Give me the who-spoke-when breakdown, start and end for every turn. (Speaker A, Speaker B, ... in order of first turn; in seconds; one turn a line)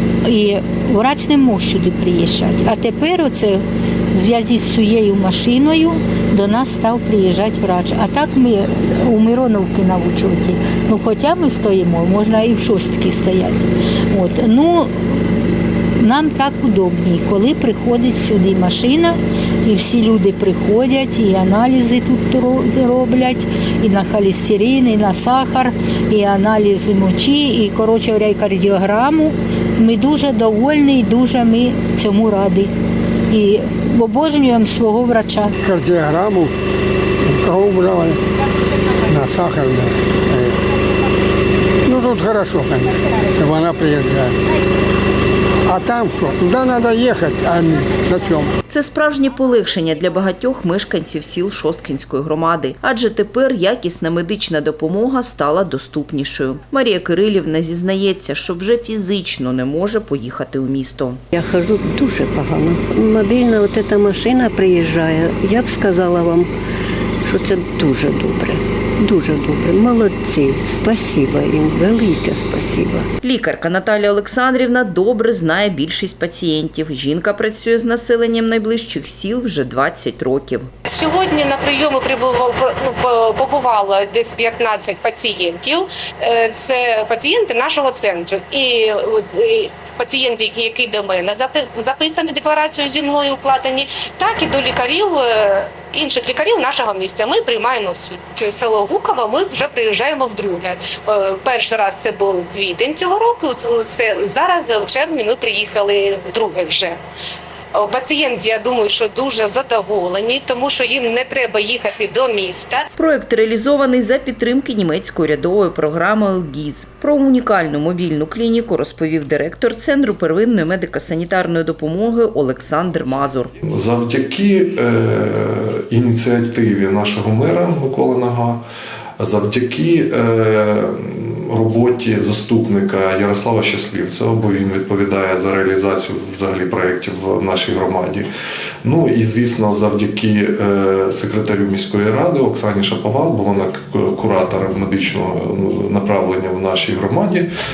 Speaker A: 0.2-15.1
Speaker A: 16.0-32.7
Speaker A: 33.3-35.5
Speaker B: 35.6-36.5
Speaker B: 37.2-38.2
Speaker B: 39.1-40.6
Speaker B: 41.9-44.4
Speaker B: 45.7-48.5
Speaker C: 48.7-61.2
Speaker D: 61.3-66.5
Speaker D: 67.2-73.1
Speaker C: 73.2-80.7
Speaker E: 80.9-107.0
Speaker E: 107.8-112.8
Speaker C: 113.0-123.5
Speaker F: 123.7-128.6
Speaker F: 129.2-138.3
Speaker F: 138.8-147.5